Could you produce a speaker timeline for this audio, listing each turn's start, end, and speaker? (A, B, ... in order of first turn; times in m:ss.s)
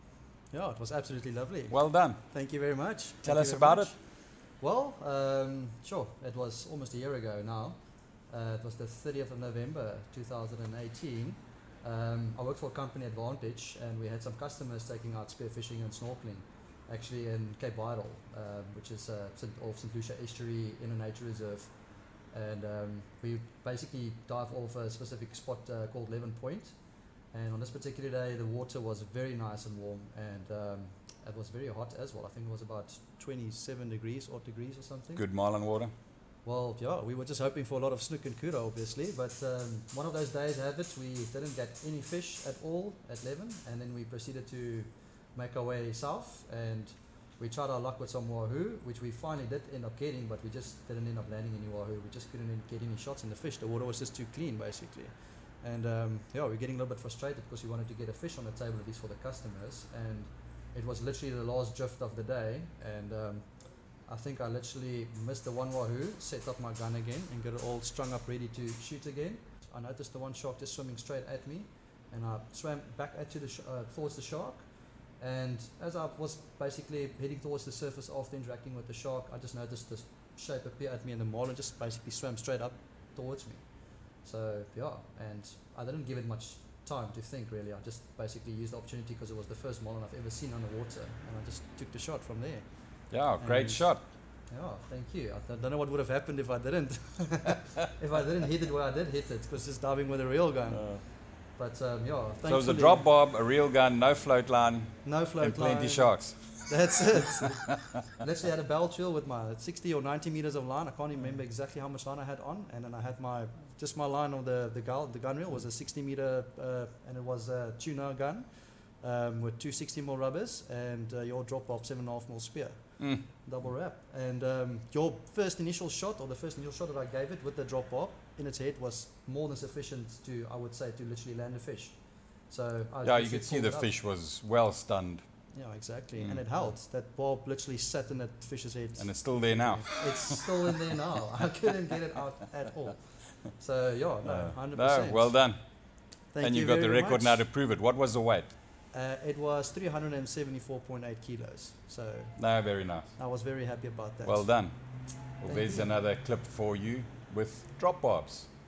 0:00.5-0:35.3 A
0:01.7-0:02.2 B
0:03.2-0:03.9 B
0:35.1-0:35.9 B
0:36.4-1:43.0 A
1:33.1-1:34.0 B
1:40.7-1:41.0 B
1:42.4-1:47.0 B
1:45.0-2:13.9 A
2:03.0-2:03.2 B
2:13.0-2:16.7 B
2:15.5-2:25.7 A
2:19.0-2:20.4 B
2:24.2-2:28.6 B
2:26.3-2:27.5 A
2:28.9-2:35.9 A
2:32.4-2:33.2 B
2:34.2-2:38.5 B